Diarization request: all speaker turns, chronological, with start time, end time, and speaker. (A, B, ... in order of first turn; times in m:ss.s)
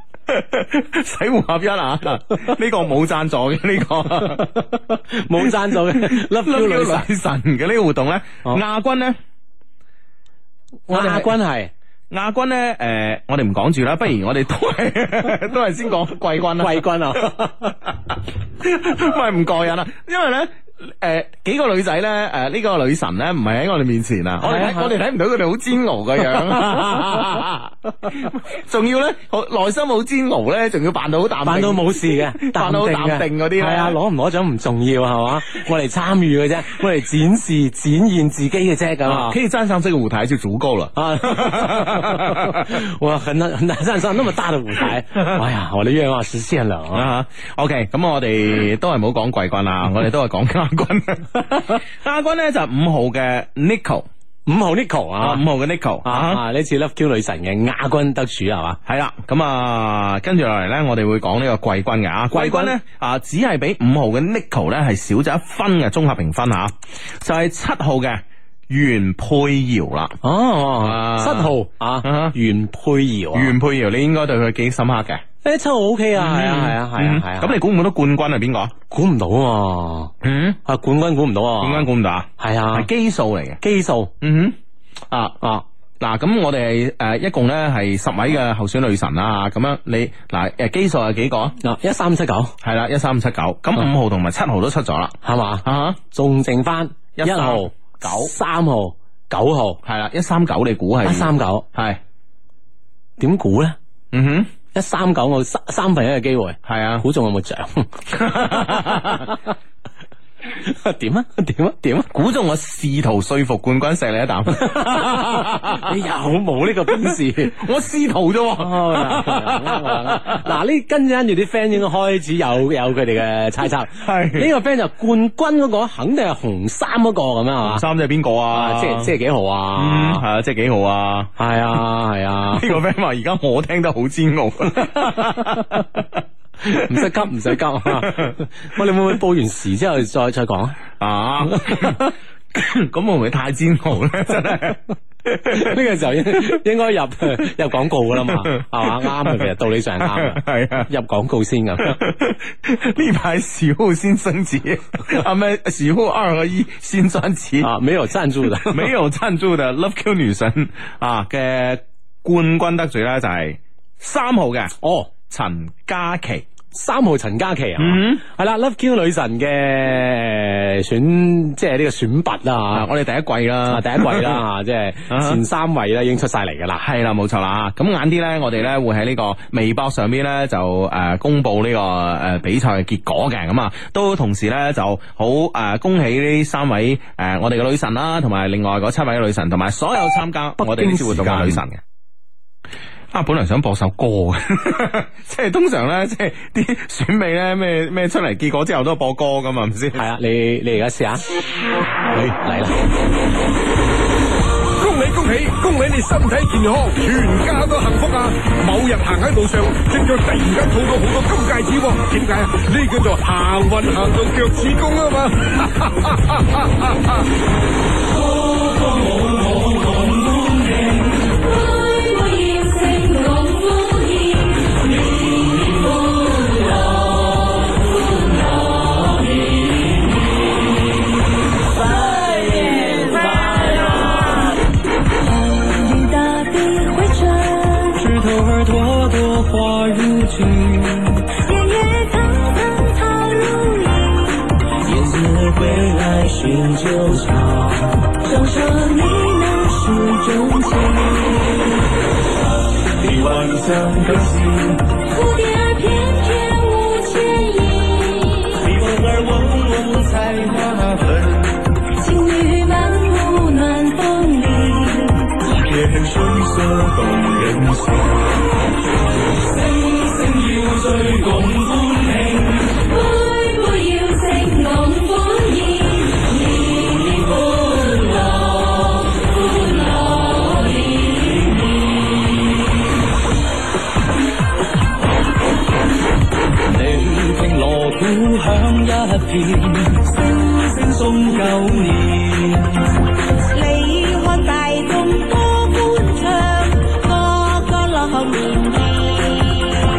0:00.3-0:04.6 A
0:04.6-0:07.1 B
0:05.4-0:09.2 A
0:10.9-0:11.7 B
0:10.9-0:11.3 A
0:12.1-0:17.3 A
0:16.6-0:17.8 B
0:18.6-0:34.0 A
0:24.4-0:25.0 B
0:26.5-0:27.0 B
0:31.4-0:39.4 B
0:39.0-0:42.8 A
0:41.0-0:47.1 B
0:46.9-0:54.1 A
0:54.5-0:55.4 B
0:55.2-0:56.4 A
0:56.0-0:58.8 B
0:58.8-1:10.2 A
1:02.3-1:02.7 B
1:10.2-1:13.5 B
1:10.8-1:12.3 A
1:13.3-1:15.2 A
1:15.4-1:17.6 B
1:16.2-1:18.7 A
1:18.9-1:20.1 B
1:20.2-1:20.6 A
1:20.6-1:21.9 B
1:21.6-1:23.6 A
1:22.4-1:22.9 B
1:23.6-1:24.1 B
1:24.2-1:24.6 A
1:25.1-1:25.4 A
1:26.0-1:31.6 A
1:31.6-1:32.6 B
1:32.6-1:36.0 A
1:35.2-1:39.8 B
1:37.2-1:38.3 A
1:39.8-1:42.0 A
1:41.0-1:41.6 B
1:43.2-1:43.8 B
1:44.1-1:44.5 A
1:44.7-1:49.2 B
1:46.6-1:47.0 A
1:48.2-1:49.3 A
1:50.6-1:52.1 B
1:52.1-1:55.9 A
1:54.6-1:57.6 B
1:57.1-2:00.4 A
1:58.6-2:07.8 B
2:04.0-2:04.5 A
2:07.6-2:09.1 A
2:08.5-2:10.2 B
2:09.8-2:11.3 A
2:11.4-2:12.7 B
2:12.5-2:17.1 A
2:16.6-2:20.8 B
2:17.8-2:18.3 A
2:21.0-2:25.8 A
2:25.5-2:32.0 B
2:28.3-2:29.4 A
2:30.0-2:30.9 A
2:31.8-2:37.7 A
2:37.6-2:38.9 B
2:38.5-2:46.4 A
2:44.8-2:45.1 B
2:46.7-2:52.9 B
2:47.8-2:48.2 A
2:52.7-2:54.4 A
2:53.7-2:56.8 B
2:55.1-2:55.4 A
2:56.8-3:11.8 A
3:10.6-3:11.6 B
3:13.1-3:20.0 A
3:19.9-3:21.2 B
3:22.1-3:22.3 A
3:22.4-3:22.7 B
3:24.8-3:37.2 C
3:38.6-3:40.8 D
3:41.2-3:47.2 E
3:51.9-3:53.6 E
3:55.2-3:58.0 E
3:58.0-4:01.2 D
4:01.4-4:04.5 E
4:08.1-4:11.9 E
4:13.0-4:14.5 D
4:15.1-4:18.7 E
4:18.6-4:21.2 D
4:22.0-4:25.4 E
4:25.6-4:28.2 D
4:29.6-4:32.6 D
4:32.7-4:38.6 E
4:40.4-4:41.1 E
4:46.7-4:52.9 D
4:53.5-4:56.6 E
4:57.6-4:59.6 E